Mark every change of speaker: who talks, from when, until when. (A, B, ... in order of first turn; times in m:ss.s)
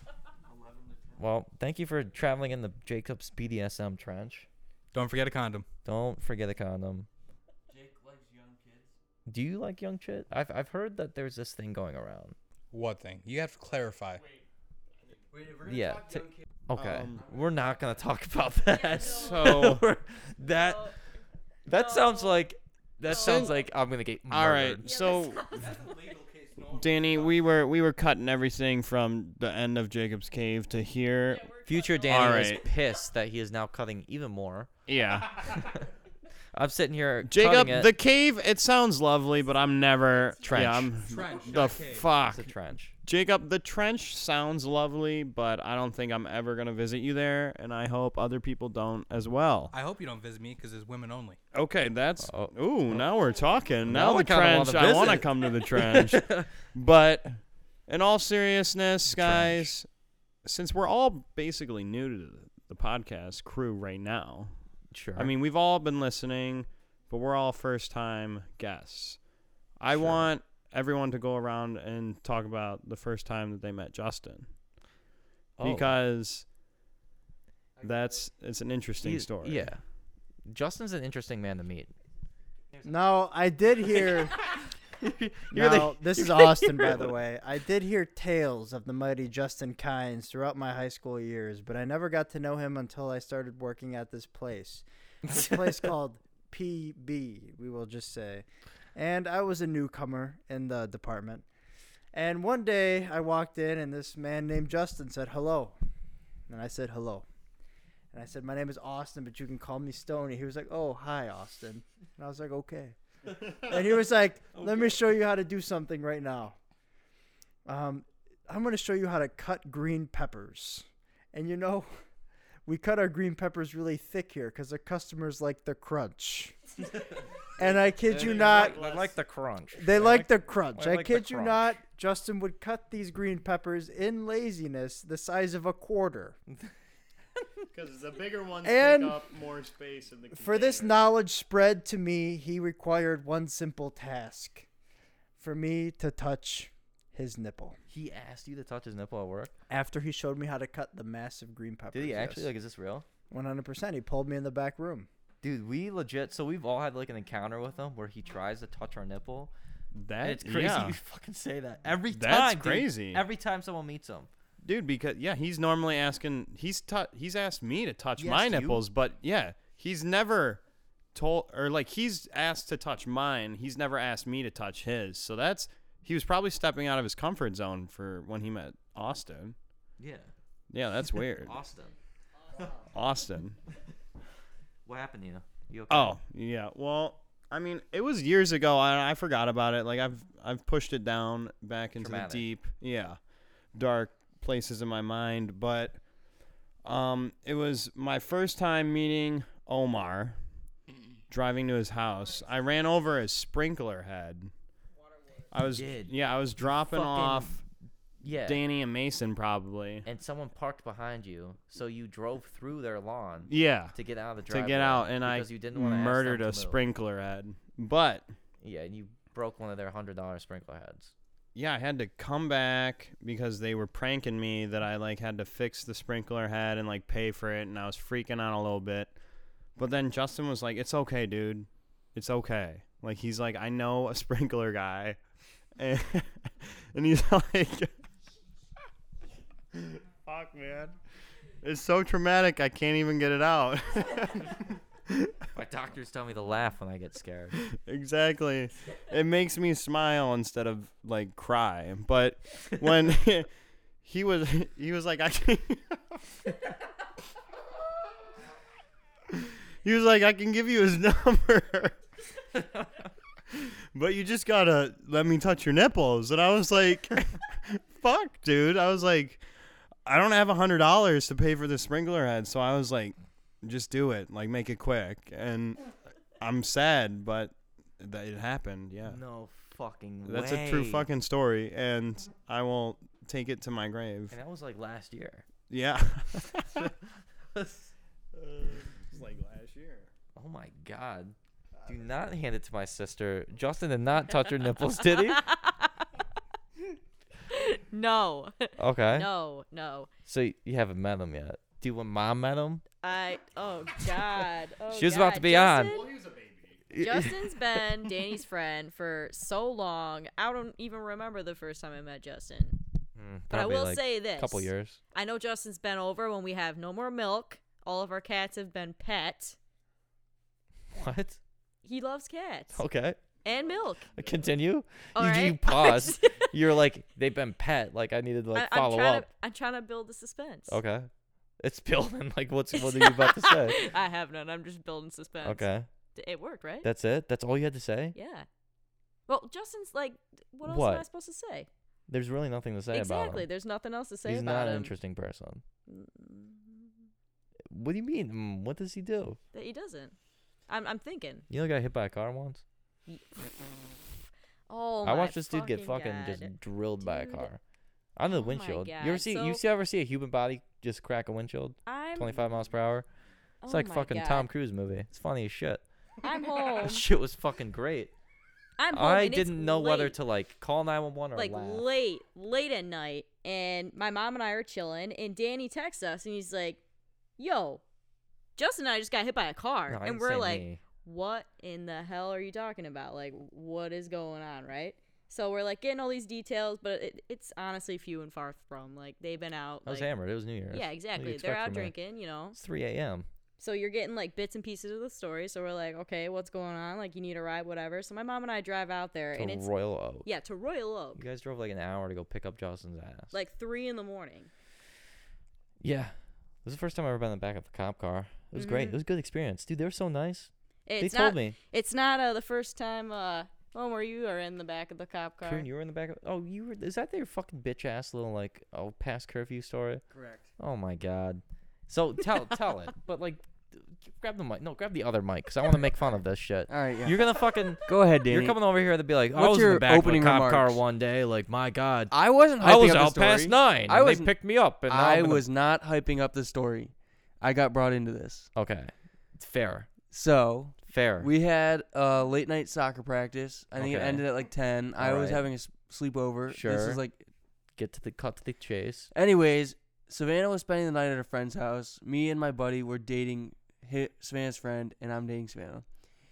0:00.4-0:01.3 A
0:01.2-0:04.5 B
0:04.9-0:05.7 C
0:05.8-0:07.1 B
0:07.7-0:08.9 A
0:09.2-0:12.4 B
0:12.7-0:14.2 C
0:14.2-0:14.4 D
0:15.3-0:16.4 A
0:15.6-0:20.9 B
0:16.7-0:17.2 D
0:17.1-0:18.1 A
0:18.6-0:19.7 E
0:19.0-0:19.8 D
0:20.4-0:21.0 E
0:21.7-0:22.4 E
0:21.7-0:25.1 B
0:23.0-0:23.6 D
0:23.1-0:23.5 E
0:24.3-0:25.6 D
0:24.8-0:25.8 E
0:25.5-0:27.4 C
0:26.7-0:31.5 D
0:31.2-0:33.0 E
0:31.6-0:34.7 B
0:32.0-0:32.7 D
0:34.9-0:35.6 D
0:35.5-0:35.9 B
0:36.5-0:37.9 B
0:37.2-0:42.5 D
0:39.6-0:41.7 E
0:40.4-0:40.9 B
0:41.0-0:42.1 C
0:42.2-0:42.9 B
0:43.0-0:49.7 D
0:49.7-0:51.4 C
0:51.5-0:59.9 D
0:52.2-0:53.0 B
0:53.8-0:56.5 B
0:59.1-0:59.7 B
1:00.4-1:04.5 D
1:04.9-1:05.3 B
1:05.2-1:09.2 D
1:09.8-1:14.5 D
1:09.9-1:10.3 B
1:15.6-1:15.9 B
1:15.6-1:16.5 D
1:17.8-1:18.2 A
1:17.8-1:19.7 D
1:19.0-1:19.8 B
1:20.4-1:21.9 B
1:22.8-1:24.6 F
1:23.9-1:27.1 B
1:25.5-1:41.4 F
1:35.3-1:35.8 B
1:42.1-1:45.8 F
1:46.5-1:47.2 F
1:48.1-1:56.6 F
1:57.6-2:01.9 F
2:02.6-2:06.6 F
2:07.6-2:08.8 F
2:07.9-2:09.1 A
2:08.1-2:08.9 D
2:08.2-2:11.6 B
2:09.7-2:16.4 F
2:17.7-2:21.0 D
2:18.6-2:19.2 F
2:20.3-2:24.7 F
2:25.4-2:27.8 F
2:27.9-2:29.5 B
2:29.7-2:32.5 F
2:31.9-2:33.0 B
2:33.3-2:35.1 F
2:35.4-2:39.5 B
2:39.9-2:41.0 D
2:40.2-2:44.3 B
2:42.1-2:43.2 D
2:44.6-2:50.6 D
2:48.2-2:48.8 B
2:51.1-2:59.6 D
3:00.0-3:00.3 B
3:00.7-3:01.6 D
3:01.3-3:01.9 B
3:02.7-3:03.6 D
3:04.8-3:06.2 B
3:05.9-3:13.2 D
3:12.0-3:12.5 B
3:13.7-3:16.0 D
3:16.8-3:20.4 D
3:21.3-3:24.5 D
3:24.9-3:25.5 E
3:25.5-3:27.6 D
3:25.7-3:26.1 B
3:26.7-3:27.6 B
3:28.2-3:28.6 B
3:28.4-3:30.0 D
3:30.0-3:36.8 B
3:33.5-3:33.9 D
3:34.5-3:38.3 D
3:38.6-3:41.1 B
3:41.5-3:49.1 D
3:49.8-3:55.2 D
3:55.8-3:57.9 D
3:59.7-4:01.0 D
4:01.6-4:05.4 D
4:05.5-4:07.6 B
4:07.7-4:13.5 D
4:14.0-4:16.2 D
4:19.3-4:22.0 D
4:23.5-4:29.4 D
4:30.0-4:35.8 D
4:36.4-4:39.2 D
4:39.0-4:41.1 B
4:40.2-4:44.4 D
4:44.3-4:45.4 B
4:45.7-4:46.9 D
4:47.5-4:47.9 B
4:48.3-4:50.1 D
4:50.4-4:55.5 B
4:55.3-4:55.9 E
4:57.5-5:00.1 E
4:58.8-4:59.3 B
5:00.2-5:02.8 B
5:03.0-5:06.1 E
5:04.9-5:06.1 B
5:06.1-5:06.8 D
5:06.9-5:07.4 B
5:06.9-5:12.8 E
5:13.2-5:15.0 B
5:13.5-5:19.6 E
5:20.9-5:21.4 B
5:21.8-5:22.8 E
5:22.7-5:23.2 B
5:23.4-5:24.1 E
5:24.1-5:29.3 B
5:25.1-5:26.5 E
5:28.5-5:30.8 E
5:30.7-5:33.9 B
5:32.8-5:36.9 E
5:35.4-5:35.9 B
5:36.8-5:38.2 B
5:38.1-5:38.5 E
5:39.3-5:41.7 E
5:40.6-5:41.0 B
5:42.1-5:43.5 B
5:42.9-5:44.9 E
5:44.2-5:45.6 B
5:45.9-5:46.9 E
5:47.7-5:49.4 B
5:49.5-5:50.2 E
5:50.7-5:51.4 E
5:51.5-5:52.6 B
5:53.1-5:53.4 E
5:54.7-5:57.5 E
5:55.0-5:57.6 B
5:58.2-6:03.1 B
5:58.2-5:59.6 E
6:01.8-6:02.5 E
6:03.6-6:04.5 E
6:03.7-6:05.8 B
6:06.2-6:07.0 E
6:06.6-6:08.1 B
6:08.8-6:10.1 E
6:08.9-6:11.8 B
6:11.4-6:16.8 E
6:17.4-6:17.8 E
6:18.6-6:30.1 E
6:19.9-6:20.8 B
6:29.8-6:31.9 B
6:30.7-6:32.6 E
6:32.5-6:33.2 B
6:33.6-6:39.7 E
6:39.3-6:40.3 B
6:40.2-6:41.2 E
6:41.2-6:43.3 B
6:43.3-6:44.5 E
6:45.8-6:51.6 B
6:48.5-6:49.0 E
6:50.8-6:55.7 E
6:55.4-7:00.0 B
7:00.1-7:00.5 A
7:00.6-7:15.4 B
7:06.7-7:07.2 A
7:07.9-7:08.6 A
7:09.3-7:10.8 A
7:12.1-7:14.3 A
7:14.9-7:18.5 A
7:18.5-7:19.9 B
7:20.1-7:27.2 A
7:20.9-7:21.3 B
7:23.7-7:24.2 B
7:25.0-7:25.5 B
7:26.5-7:27.0 B
7:27.8-7:29.1 B
7:29.1-7:35.8 A